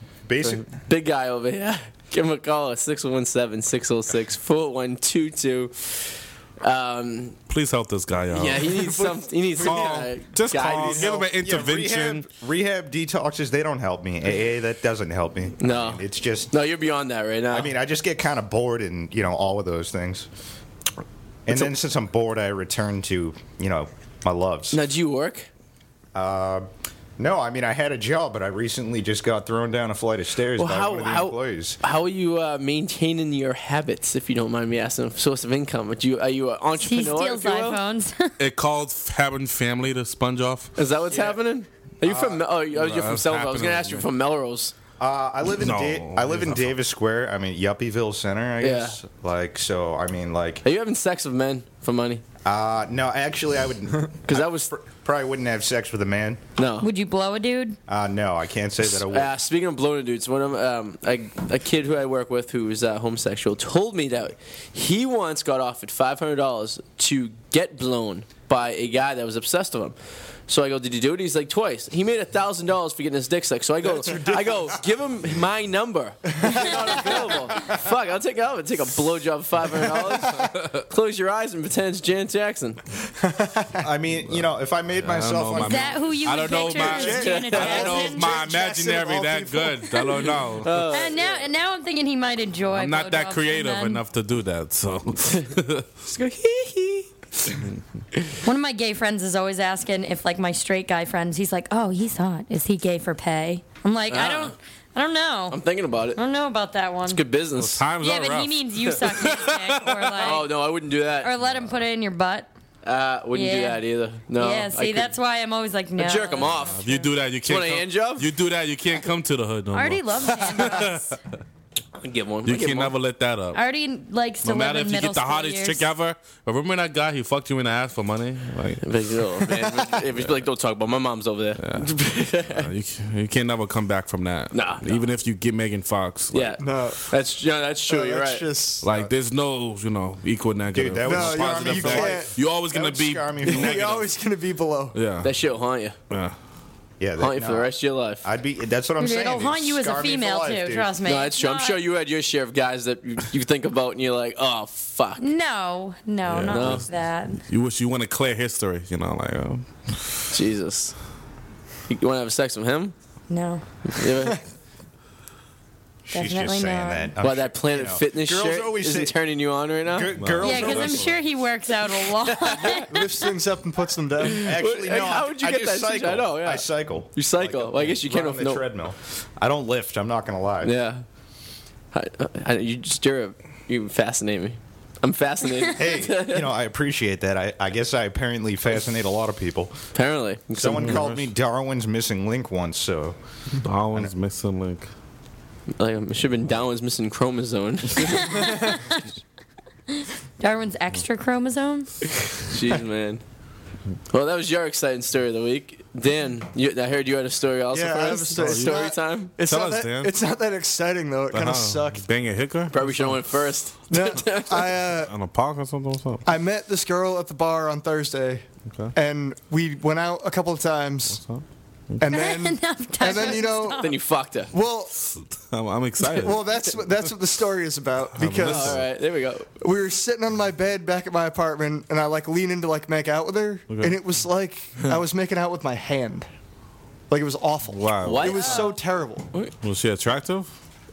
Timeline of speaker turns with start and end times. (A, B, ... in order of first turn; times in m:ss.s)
0:00.3-0:00.7 A
0:00.4-0:07.4 B
0:07.5-0:12.3 C
0:08.3-0:11.1 B
0:10.5-0:16.5 A
0:15.6-0:17.7 B
0:17.5-0:20.3 A
0:21.5-0:24.8 A
0:24.7-0:25.5 B
0:26.2-0:26.7 A
0:27.2-0:31.8 A
0:30.6-0:37.8 B
0:36.8-0:38.3 D
0:38.4-0:40.7 C
0:40.8-0:44.7 B
0:41.1-0:41.4 A
0:42.0-0:42.5 A
0:42.7-0:44.1 C
0:45.0-0:50.6 A
0:45.6-0:46.7 C
0:48.6-0:49.0 B
0:50.6-0:52.2 B
0:52.4-0:56.4 A
0:54.3-0:54.7 B
0:56.6-0:56.9 B
0:56.8-0:57.8 D
0:57.9-0:59.3 A
0:59.0-1:10.0 B
1:10.5-1:22.8 B
1:13.8-1:14.8 E
1:16.4-1:17.7 E
1:17.1-1:17.6 D
1:20.0-1:20.5 E
1:23.2-1:23.8 E
1:23.8-1:26.1 A
1:25.0-1:30.9 C
1:25.5-1:28.4 D
1:26.7-1:30.3 E
1:27.1-1:28.2 B
1:30.1-1:30.3 D
1:30.6-1:31.5 B
1:30.9-1:34.0 D
1:32.7-1:35.9 C
1:36.0-1:37.6 B
1:38.4-1:45.6 D
1:44.1-1:44.6 B
1:45.5-1:46.2 B
1:46.2-1:47.2 D
1:47.1-1:47.8 B
1:47.6-1:50.3 C
1:48.0-1:50.5 D
1:48.9-1:49.2 B
1:50.2-1:51.3 B
1:51.2-1:52.5 D
1:52.8-1:55.1 B
1:53.3-1:53.8 D
1:54.3-1:57.1 D
1:56.0-1:56.8 B
1:56.4-2:01.2 C
1:57.4-1:58.3 B
1:59.7-2:01.1 D
2:02.0-2:02.9 B
2:02.5-2:03.6 C
2:03.5-2:05.8 D
2:04.4-2:08.8 C
2:08.8-2:12.7 B
2:09.5-2:10.0 E
2:11.6-2:11.9 C
2:12.5-2:16.6 C
2:14.5-2:15.1 B
2:16.3-2:18.4 B
2:16.6-2:17.0 E
2:17.9-2:18.9 E
2:18.8-2:24.0 C
2:20.7-2:24.1 A
2:21.0-2:22.3 E
2:23.4-2:25.0 E
2:24.9-2:25.3 C
2:25.2-2:26.0 B
2:26.1-2:26.4 C
2:27.0-2:27.7 A
2:27.2-2:28.2 B
2:28.2-2:30.9 A
2:29.0-2:31.8 D
2:31.0-2:35.3 B
2:35.2-2:37.4 D
2:36.3-2:36.9 C
2:36.5-2:36.8 B
2:37.5-2:40.2 C
2:40.3-2:40.9 B
2:41.9-2:42.9 B
2:43.3-2:43.6 D
2:43.8-2:44.4 B
2:46.1-2:49.2 A
2:46.1-2:47.1 D
2:47.2-2:50.1 B
2:49.9-2:51.2 A
2:50.2-2:51.2 C
2:50.4-2:53.3 D
2:52.2-2:52.9 B
2:52.8-2:54.6 E
2:54.2-2:58.6 B
2:54.4-3:00.8 A
3:00.6-3:01.0 B
3:01.9-3:06.5 B
3:05.8-3:09.8 A
3:09.9-3:11.0 B
3:10.5-3:13.2 A
3:10.8-3:11.3 C
3:13.6-3:14.9 C
3:15.8-3:18.6 B
3:18.0-3:19.1 D
3:19.9-3:21.9 D
3:22.4-3:23.2 B
3:24.1-3:29.3 B
3:27.7-3:32.0 E
3:28.4-3:30.2 C
3:31.3-3:33.1 C
3:32.7-3:34.8 B
3:33.9-3:35.1 E
3:35.1-3:36.3 C
3:36.3-3:41.2 E
3:41.1-3:42.0 C
3:42.0-3:43.9 E
3:42.1-3:43.9 D
3:43.8-3:44.5 B
3:44.5-3:44.9 E
3:45.1-3:46.7 C
3:46.1-3:48.8 E
3:48.2-3:48.8 C
3:48.4-3:49.5 B
3:49.6-3:56.3 E
3:53.7-3:54.0 C
3:57.1-3:59.3 E
3:57.7-3:58.5 C
3:58.0-3:58.7 B
3:58.3-3:58.7 D
3:59.6-4:00.5 C